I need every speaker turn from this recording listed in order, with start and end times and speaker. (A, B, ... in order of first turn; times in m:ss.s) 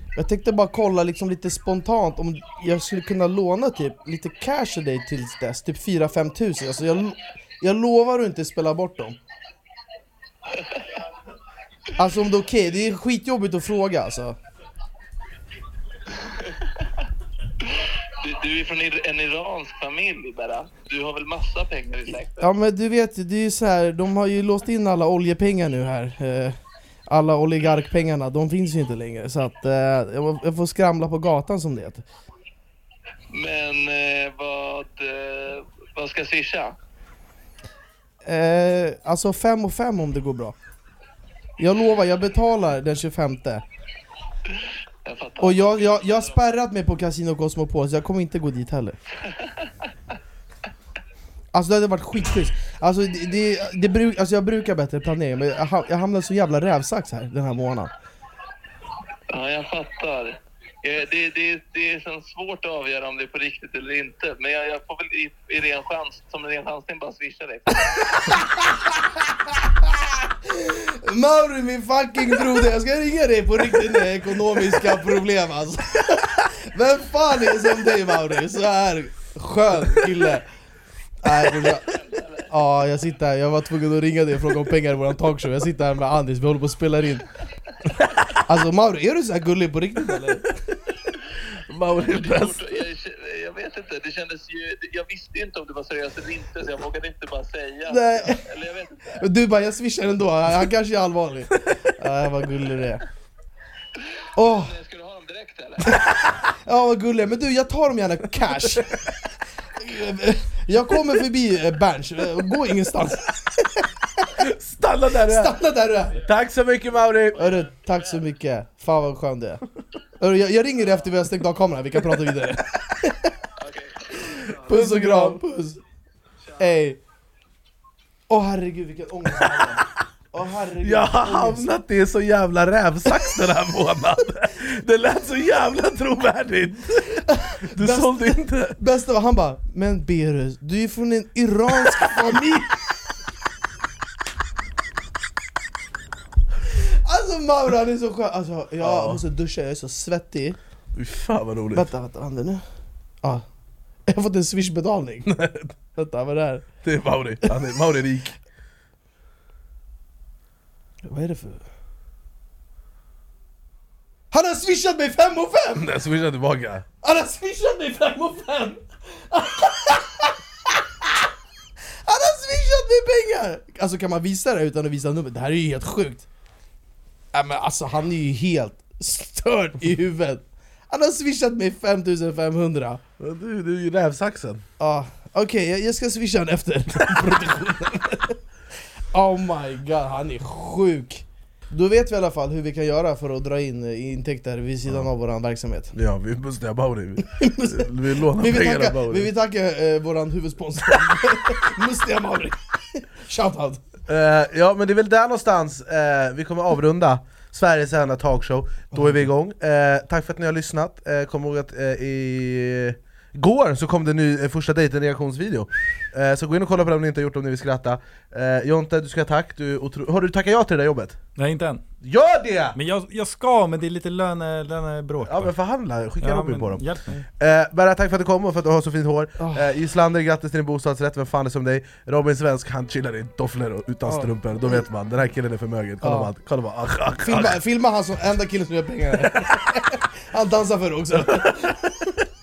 0:00.2-0:09.2 A
0:10.5-0:10.9 B
0:12.0-0:14.4 A
0:16.1-0:16.9 B
0:17.6-0:22.5 B
0:22.4-0:32.0 A
0:33.3-0:36.8 B
0:38.2-0:40.6 A
0:41.6-0:43.6 A
0:44.5-0:46.4 B
0:45.4-0:49.0 A
0:49.2-0:49.7 B
0:51.5-0:57.9 A
0:59.3-1:07.8 B
1:08.0-1:20.5 A
1:21.2-1:22.0 A
1:21.7-1:22.5 B
1:22.5-1:27.3 A
1:28.4-1:30.6 A
1:31.7-1:32.6 C
1:32.0-1:39.2 B
1:37.9-1:38.4 A
1:39.2-1:43.0 A
1:44.0-1:46.0 B
1:44.4-1:44.7 A
1:46.6-1:49.0 A
1:49.8-1:54.3 A
1:54.4-1:55.6 C
1:55.3-1:56.2 A
1:56.2-1:57.6 C
1:57.4-1:58.2 B
1:57.4-1:59.6 A
2:00.2-2:03.3 A
2:03.6-2:04.7 B
2:04.2-2:05.8 A
2:04.7-2:05.4 C
2:06.4-2:06.8 B
2:06.6-2:07.0 A
2:08.3-2:11.7 A
2:10.8-2:18.8 C
2:17.3-2:22.8 A
2:26.7-2:30.6 A
2:28.8-2:29.2 C
2:30.9-2:31.9 C
2:31.7-2:32.6 A
2:34.1-2:35.3 A
2:35.3-2:35.7 C
2:36.0-2:36.7 A
2:36.8-2:38.4 C
2:41.1-2:41.6 A
2:44.3-2:45.9 A
2:45.8-2:46.9 C
2:47.0-2:50.4 A
2:52.1-2:56.3 A
2:57.3-3:03.0 A
3:03.2-3:04.6 C
3:04.8-3:08.4 A
3:09.1-3:16.0 A
3:16.0-3:19.3 C
3:17.2-3:23.8 A
3:24.1-3:41.2 C
3:41.4-3:41.8 D
3:42.0-3:42.8 C
3:42.8-3:45.6 D
3:45.2-3:46.8 C
3:46.2-3:47.2 D
3:47.4-3:57.6 C
3:49.4-3:49.7 A
3:54.1-3:54.8 A
3:56.0-3:56.3 A
3:57.2-4:02.0 A
3:59.2-3:59.6 C
4:01.3-4:02.1 C